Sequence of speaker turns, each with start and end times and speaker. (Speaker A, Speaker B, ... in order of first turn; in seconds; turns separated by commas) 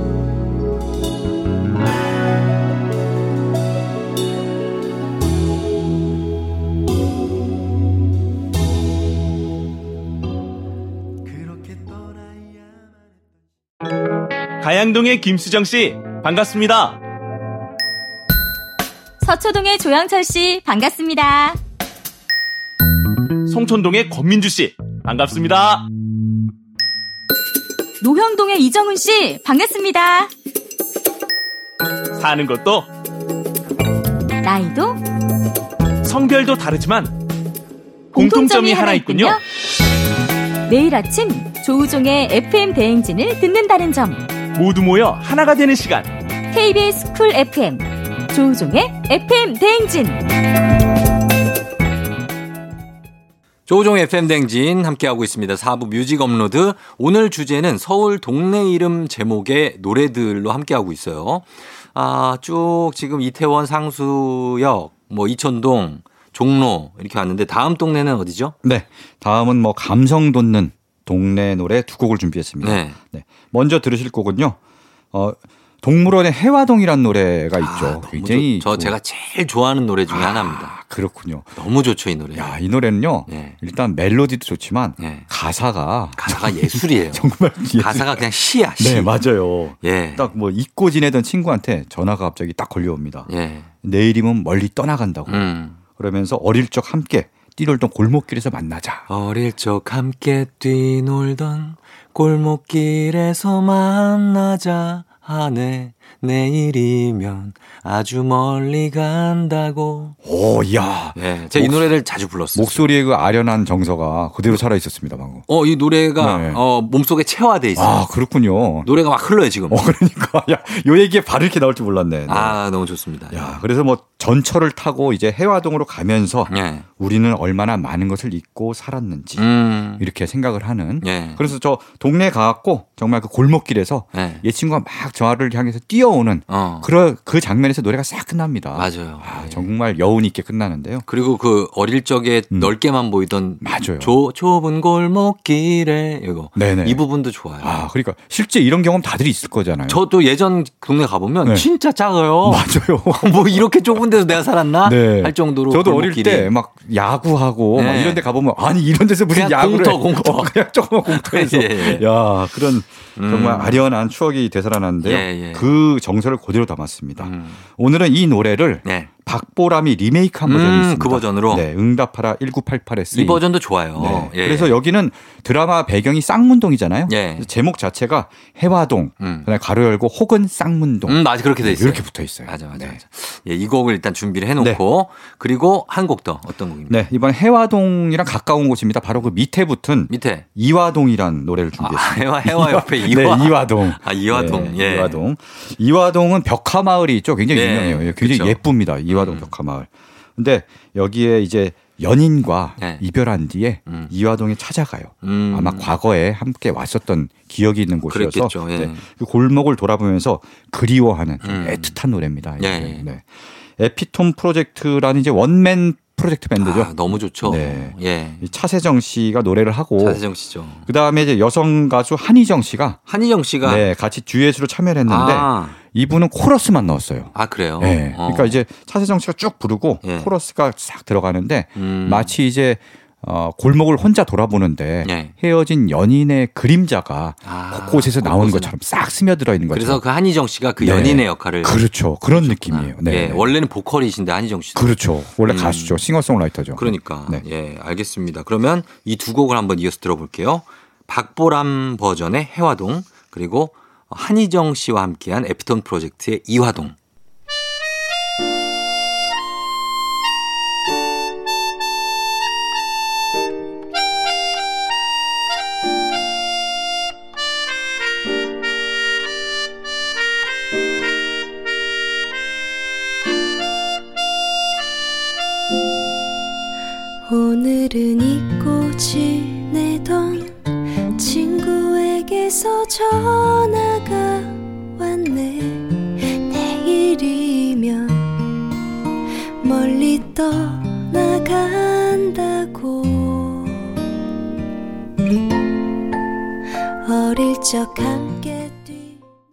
Speaker A: 14.6-17.0, Speaker B: 19.2-21.6, Speaker A: 23.4-25.9, Speaker B: 28.0-30.3, Speaker A: 32.1-32.9, Speaker B: 34.4-35.0, Speaker A: 36.0-37.1, Speaker B: 38.1-39.4, Speaker A: 38.1-39.4, Speaker B: 40.7-44.2, Speaker A: 44.5-46.1, Speaker B: 46.5-50.2, Speaker C: 53.7-68.5, Speaker D: 68.6-74.6, Speaker C: 72.6-73.0, Speaker D: 75.1-79.0, Speaker C: 77.6-80.7, Speaker D: 80.1-81.5, Speaker C: 81.6-82.5, Speaker D: 82.3-93.3, Speaker C: 83.3-83.6, Speaker C: 85.0-85.3, Speaker C: 86.2-87.2, Speaker C: 87.8-89.1, Speaker C: 89.8-90.3, Speaker C: 93.3-93.7, Speaker D: 93.8-99.0, Speaker C: 95.3-95.8, Speaker C: 99.1-110.2, Speaker D: 110.2-112.0, Speaker C: 111.2-112.9, Speaker D: 112.5-115.5, Speaker C: 115.5-118.0, Speaker D: 116.2-116.6, Speaker D: 117.8-118.9, Speaker C: 118.8-119.8, Speaker D: 119.7-122.6, Speaker C: 122.3-123.6, Speaker D: 123.3-141.0, Speaker C: 126.5-126.8, Speaker C: 129.4-130.0, Speaker C: 131.0-131.4, Speaker C: 134.1-134.4, Speaker C: 136.5-136.9, Speaker C: 138.8-139.6, Speaker C: 141.1-147.7, Speaker D: 143.6-144.2, Speaker D: 146.6-150.0, Speaker C: 149.9-156.5, Speaker D: 152.4-154.0, Speaker D: 154.8-183.0, Speaker C: 157.7-158.2, Speaker C: 159.3-160.6, Speaker C: 161.1-162.0, Speaker C: 163.2-163.8, Speaker C: 165.0-165.7, Speaker C: 167.2-167.6, Speaker C: 168.8-169.1, Speaker C: 170.5-171.7, Speaker C: 173.1-174.8, Speaker C: 177.1-177.5, Speaker C: 179.2-179.5, Speaker C: 181.1-187.0, Speaker D: 186.9-213.2, Speaker C: 190.1-190.4, Speaker C: 191.8-195.2, Speaker C: 197.5-198.6, Speaker C: 199.1-199.5, Speaker C: 205.2-205.9, Speaker C: 208.1-209.0, Speaker C: 211.4-211.9, Speaker C: 212.6-213.1, Speaker D: 213.8-220.2, Speaker C: 216.6-218.5, Speaker C: 220.0-220.9, Speaker D: 220.9-223.0, Speaker C: 223.1-223.8, Speaker D: 223.6-240.0, Speaker C: 225.1-225.8, Speaker C: 227.3-228.6, Speaker C: 230.0-230.3, Speaker C: 231.8-232.3, Speaker C: 235.0-235.3, Speaker C: 237.4-238.7, Speaker C: 239.7-241.8, Speaker D: 240.8-243.5, Speaker C: 242.3-246.0, Speaker D: 244.8-247.4, Speaker C: 246.8-256.9, Speaker E: 277.2-280.6, Speaker E: 281.1-288.4, Speaker E: 289.6-293.9, Speaker E: 297.0-299.2